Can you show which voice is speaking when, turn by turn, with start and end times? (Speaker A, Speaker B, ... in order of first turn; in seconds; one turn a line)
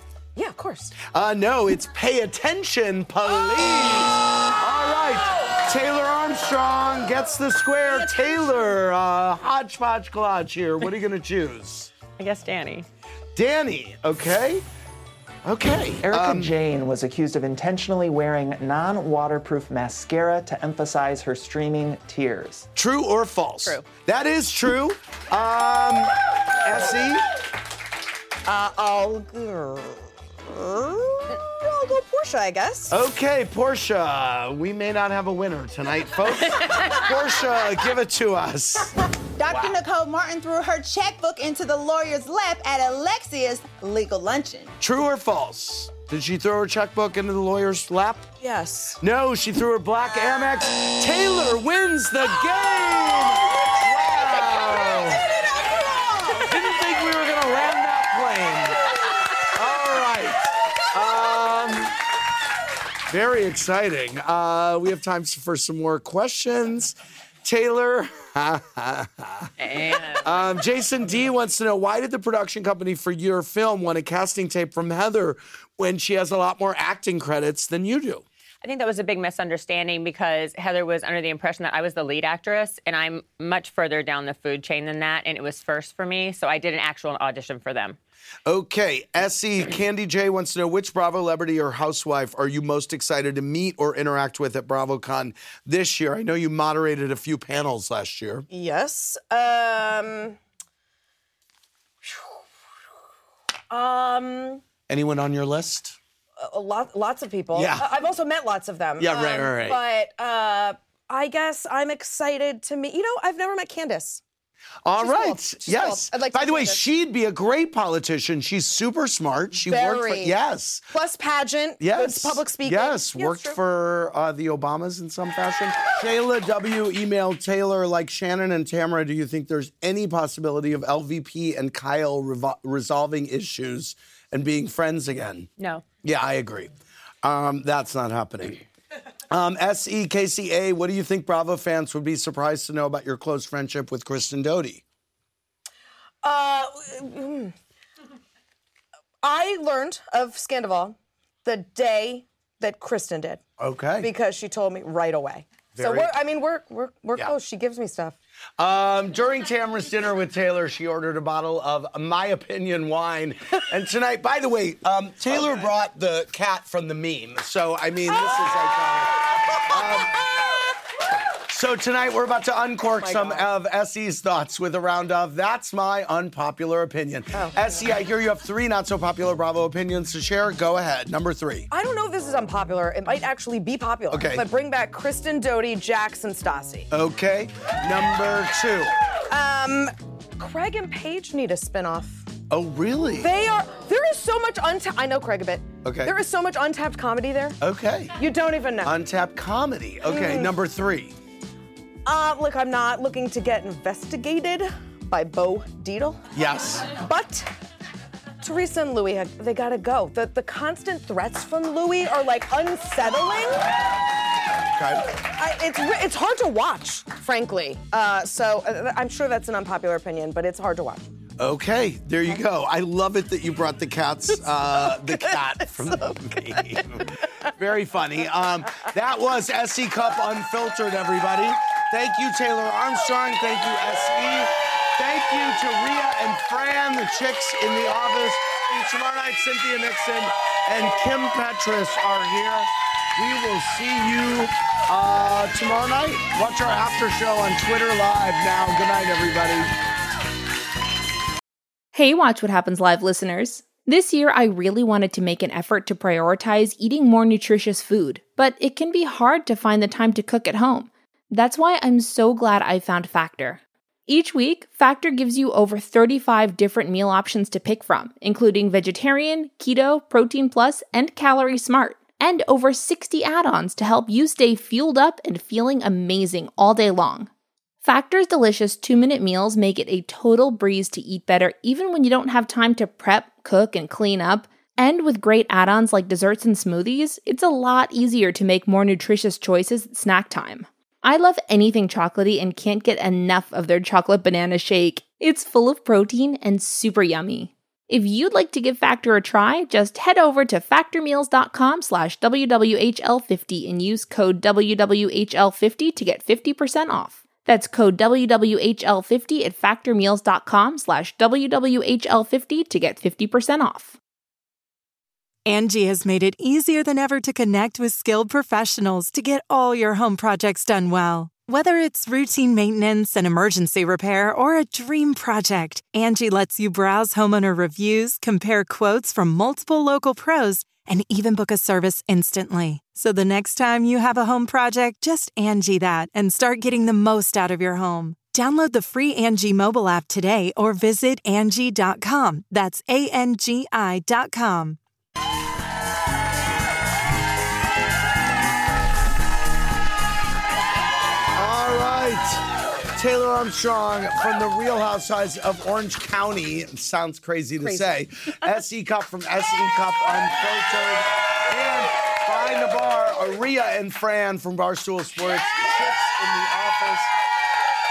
Speaker A: 0.3-0.9
Speaker B: 1.0-11.9
Speaker A: 7.9-8.4
Speaker C: 12.2-12.9
Speaker B: 13.3-14.6
Speaker B: 15.4-16.5
Speaker D: 16.0-22.7
Speaker B: 22.8-27.2
Speaker A: 28.4-32.9
Speaker B: 32.9-38.9
Speaker E: 39.4-44.7
Speaker B: 39.5-39.8
Speaker B: 44.8-48.3
Speaker A: 48.4-49.0
Speaker B: 49.0-55.2
Speaker A: 54.4-56.5
Speaker B: 56.3-58.9
Speaker B: 59.5-61.9
Speaker B: 63.1-69.5
Speaker C: 69.6-70.4
Speaker B: 70.2-78.2
Speaker C: 78.6-88.0
Speaker B: 88.5-98.5
Speaker A: 98.5-100.4
Speaker A: 103.7-104.6
Speaker B: 104.9-106.0
Speaker A: 106.4-114.2
Speaker B: 107.5-107.9
Speaker B: 109.0-109.8
Speaker B: 114.8-120.8
Speaker A: 115.0-116.8
Speaker A: 119.5-120.4
Speaker A: 120.9-123.6
Speaker B: 121.8-135.5
Speaker C: 135.6-135.8
Speaker B: 136.0-136.7
Speaker B: 137.2-138.6
Speaker B: 139.3-144.8
Speaker A: 146.2-147.5
Speaker A: 149.2-153.4
Speaker B: 153.6-154.1
Speaker A: 154.0-158.2
Speaker B: 155.7-156.1
Speaker B: 158.6-170.1
Speaker B: 171.5-181.7
Speaker A: 173.0-173.5
Speaker A: 177.3-177.6
Speaker A: 181.7-186.9
Speaker B: 184.1-184.4
Speaker B: 186.9-188.9
Speaker A: 189.3-192.3
Speaker B: 192.5-193.3
Speaker A: 193.2-197.6
Speaker B: 195.8-196.1
Speaker B: 197.6-198.2
Speaker A: 198.2-198.9
Speaker B: 198.8-201.1
Speaker A: 200.1-200.5
Speaker A: 202.0-206.2
Speaker B: 206.3-206.9
Speaker A: 206.9-207.5
Speaker A: 208.4-213.7
Speaker B: 214.7-215.0
Speaker A: 215.3-221.1
Speaker B: 221.4-249.7
Speaker F: 251.9-277.3
Speaker F: 277.8-313.9
Speaker G: 315.5-344.8
Speaker B: 351.3-352.4
Speaker B: 352.9-367.1